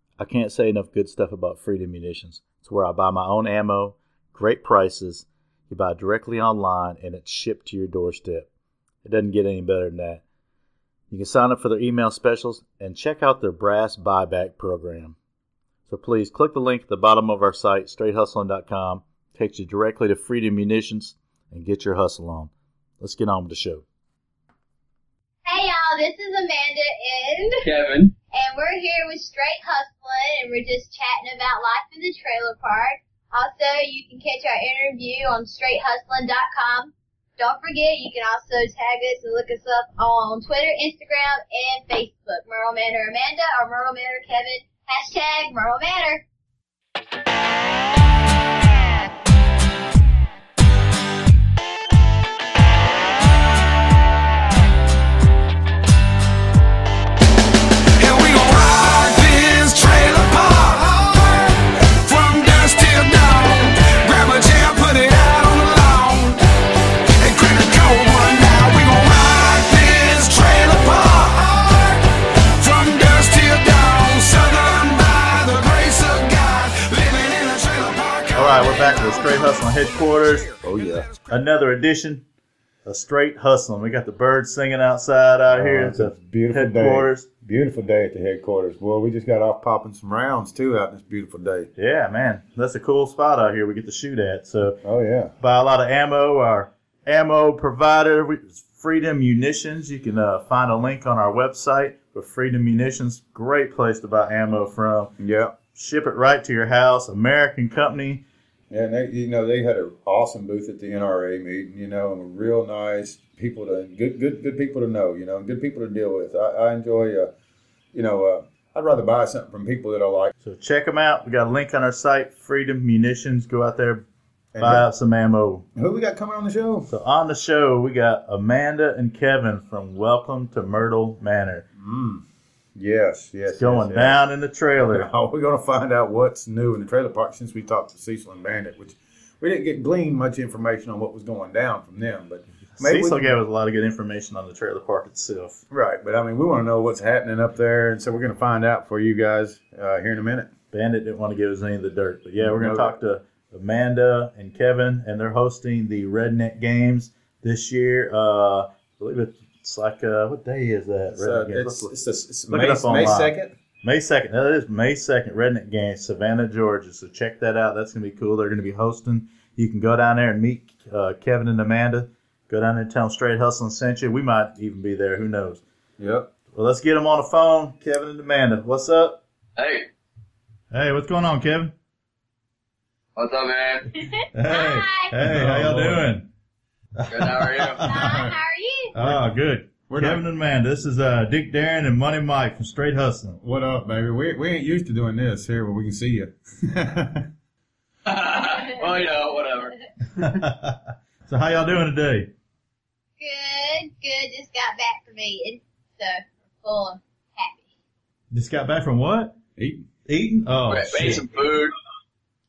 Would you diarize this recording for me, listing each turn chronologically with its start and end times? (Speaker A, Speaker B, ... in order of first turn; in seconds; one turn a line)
Speaker A: 0.2-8.5
Speaker A: 9.0-10.2
Speaker A: 11.1-15.2
Speaker A: 15.9-23.8
Speaker B: 25.4-27.6
Speaker C: 27.6-28.1
Speaker B: 28.3-46.2
Speaker D: 58.0-66.4
Speaker D: 67.2-72.1
Speaker D: 72.6-81.3
Speaker A: 78.3-80.5
Speaker E: 80.6-81.1
Speaker A: 81.3-82.2
Speaker A: 82.8-87.3
Speaker E: 85.5-91.7
Speaker A: 91.8-94.8
Speaker E: 94.8-95.3
Speaker A: 95.4-105.1
Speaker E: 105.2-105.5
Speaker A: 105.7-108.2
Speaker E: 108.7-117.3
Speaker E: 117.9-120.3
Speaker A: 120.4-124.0
Speaker E: 124.5-124.8
Speaker A: 124.6-125.7
Speaker E: 125.8-126.9
Speaker A: 126.9-131.6
Speaker E: 131.7-132.2
Speaker E: 132.7-134.2
Speaker A: 133.5-135.1
Speaker E: 134.9-143.3
Speaker A: 142.8-145.6
Speaker E: 145.7-150.5
Speaker A: 150.7-161.9
Speaker E: 152.4-152.9
Speaker E: 161.1-163.5
Speaker A: 162.5-175.6
Speaker E: 176.0-176.3
Speaker A: 176.5-179.2
Speaker C: 179.6-179.9
Speaker A: 180.7-181.7
Speaker C: 183.2-183.9
Speaker B: 183.9-185.1
Speaker A: 184.3-186.3
Speaker E: 185.2-186.1
Speaker A: 187.0-188.2
Speaker C: 187.1-187.8
Speaker B: 187.8-188.9
Speaker E: 188.0-188.3
Speaker A: 188.9-193.4
Speaker E: 189.0-189.3
Speaker E: 189.9-190.2
Speaker E: 193.4-197.3
Speaker C: 198.1-199.7
Speaker B: 198.4-198.8
Speaker A: 200.2-202.3
Speaker B: 203.2-207.6
Speaker A: 208.3-209.3
Speaker E: 209.6-209.8
Speaker A: 210.1-211.2
Speaker C: 210.7-211.7